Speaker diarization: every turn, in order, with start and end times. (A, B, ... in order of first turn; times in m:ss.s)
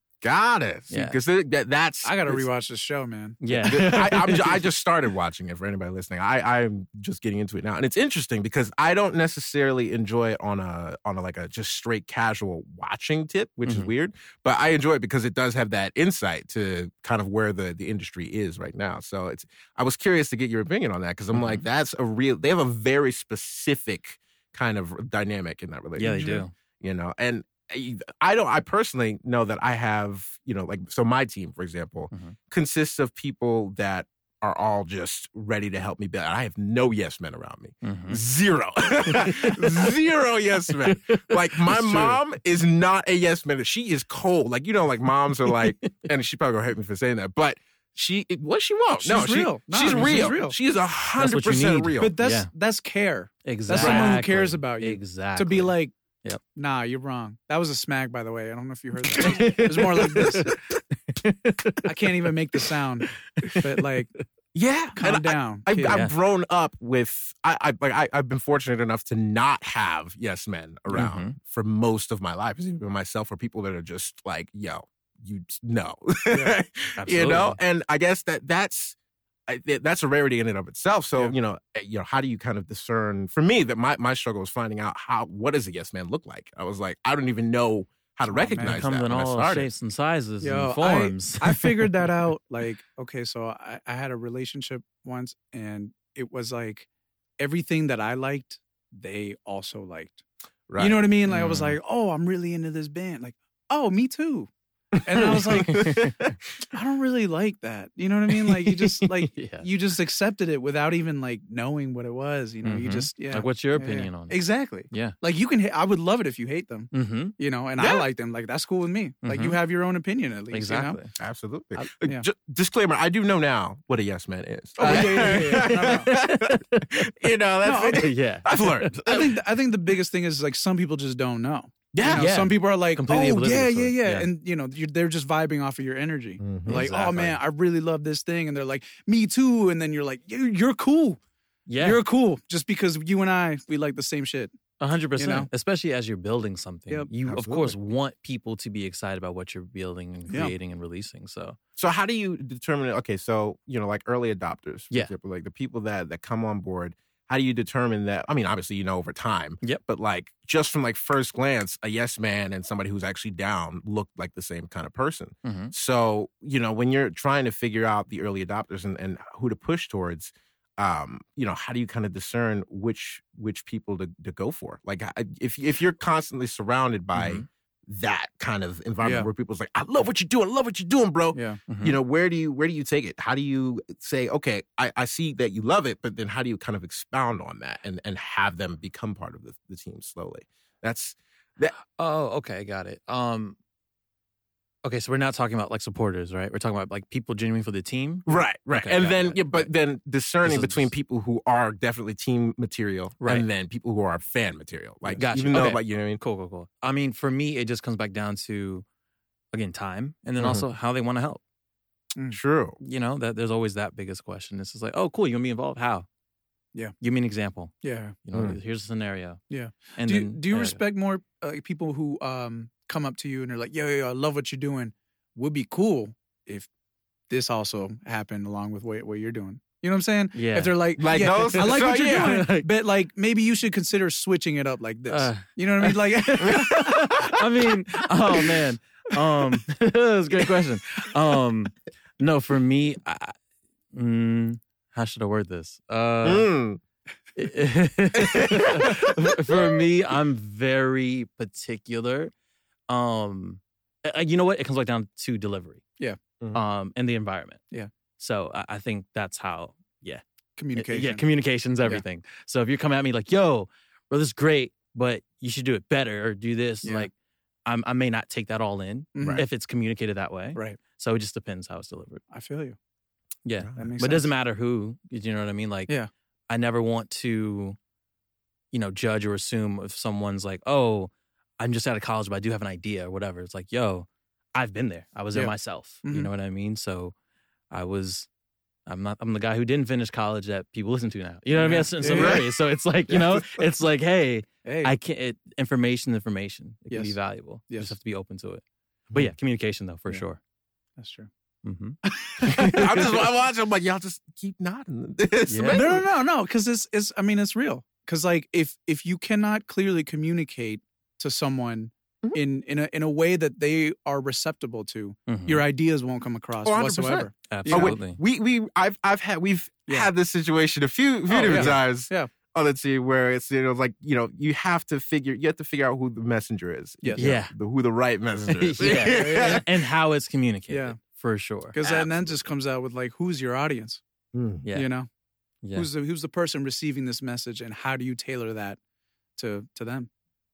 0:00.2-0:02.5 A
0:00.9-0:01.2 B
0:02.0-0:03.8 C
0:03.4-0:04.6 B
0:03.6-0:26.3 A
0:13.7-0:13.9 B
0:21.3-0:21.6 B
0:26.0-0:26.5 C
0:26.0-0:26.5 B
0:26.8-0:52.2 A
0:32.1-0:32.4 B
0:37.8-0:38.2 B
0:39.0-0:39.9 B
0:40.7-0:42.2 B
0:45.4-0:46.1 B
0:49.0-0:50.6 C
0:49.9-0:50.3 B
0:51.2-0:52.5 B
0:52.0-0:56.0 C
0:53.4-0:56.4 B
0:53.8-0:54.2 A
0:56.5-1:00.6 C
0:59.1-1:02.6 B
1:01.8-1:04.1 C
1:03.3-1:03.8 B
1:04.5-1:19.0 A
1:05.0-1:06.0 C
1:05.9-1:06.2 B
1:10.9-1:11.4 B
1:16.3-1:16.6 C
1:17.0-1:17.6 B
1:19.5-1:29.7 A
1:28.3-1:28.8 C
1:28.6-1:31.9 B
1:30.4-1:36.9 C
1:37.4-1:40.2 C
1:40.7-1:41.1 A
1:40.8-1:44.5 C
1:41.3-1:41.8 B
1:44.9-1:46.4 A
1:45.0-1:46.1 C
1:45.5-1:46.2 B
1:46.7-2:01.0 C
1:49.0-1:49.7 B
1:52.6-1:55.2 B
1:56.9-1:57.4 B
1:57.8-1:58.1 A
1:59.2-1:59.6 B
2:00.5-2:01.1 B
2:01.2-2:09.4 A
2:04.8-2:06.1 C
2:04.9-2:06.8 B
2:07.6-2:08.1 C
2:07.9-2:09.0 B
2:09.0-2:21.2 C
2:11.9-2:12.3 A
2:12.1-2:14.3 B
2:16.4-2:16.8 A
2:16.6-2:17.4 B
2:21.7-2:22.0 B
2:21.8-2:24.5 C
2:24.8-2:31.6 B
2:25.2-2:25.5 C
2:27.3-2:27.8 A
2:30.3-2:30.6 C
2:31.8-3:11.8 A
2:45.4-2:45.7 B
2:57.2-2:57.5 B
2:59.0-2:59.3 C
3:01.3-3:01.6 C
3:01.7-3:02.0 B
3:11.8-3:13.6 B
3:14.8-3:19.7 B
3:18.3-3:26.2 A
3:20.4-3:20.9 B
3:23.2-3:23.5 B
3:25.1-3:28.9 B
3:29.5-3:31.4 B
3:30.4-3:30.6 A
3:32.3-3:32.8 A
3:32.8-3:36.1 B
3:37.0-3:39.4 B
3:37.8-3:38.2 C
3:39.5-3:46.7 C
3:40.0-3:40.8 B
3:47.3-3:57.2 C
3:50.3-3:52.7 B
3:51.0-3:52.5 A
3:55.1-4:03.4 B
3:56.4-3:57.4 A
4:03.9-4:06.5 B
4:06.2-4:06.8 A
4:07.4-4:12.3 B
4:08.1-4:09.8 A
4:12.9-4:15.8 B
4:16.5-4:17.6 B
4:18.2-4:20.2 B
4:20.6-4:21.2 C
4:20.8-4:27.1 B
4:26.8-4:27.1 C
4:27.7-4:32.2 B
4:29.2-4:29.5 C
4:29.2-4:29.4 A
4:32.3-4:32.8 C
4:33.5-4:36.0 B
4:33.8-4:34.3 C
4:36.5-4:37.8 B
4:38.7-4:47.1 B
4:45.3-4:46.3 C
4:47.7-4:48.3 B
4:48.9-5:00.4 B
4:51.6-4:52.5 C
4:52.0-4:52.4 A
4:53.1-4:53.4 C
4:54.6-4:55.0 C
4:56.9-4:57.2 C
4:57.7-4:58.0 C
5:01.0-5:01.3 C
5:01.6-5:02.0 B
5:02.0-5:03.2 C
5:02.4-5:06.1 A
5:02.6-5:03.0 B
5:05.5-5:05.9 B
5:05.7-5:18.0 C
5:15.3-5:15.6 B
5:16.6-5:29.8 A
5:17.5-5:18.2 B
5:21.3-5:22.3 C
5:21.5-5:21.8 B
5:27.0-5:27.3 C
5:27.2-5:27.5 B
5:28.5-5:31.8 B
5:28.8-5:29.6 C
5:30.7-5:31.0 C
5:31.7-5:34.0 C
5:31.8-5:32.4 A
5:34.3-5:34.6 A
5:34.6-5:34.9 B
5:34.7-5:35.1 C
5:35.6-5:35.9 B
5:35.8-5:38.8 C
5:39.4-5:40.1 C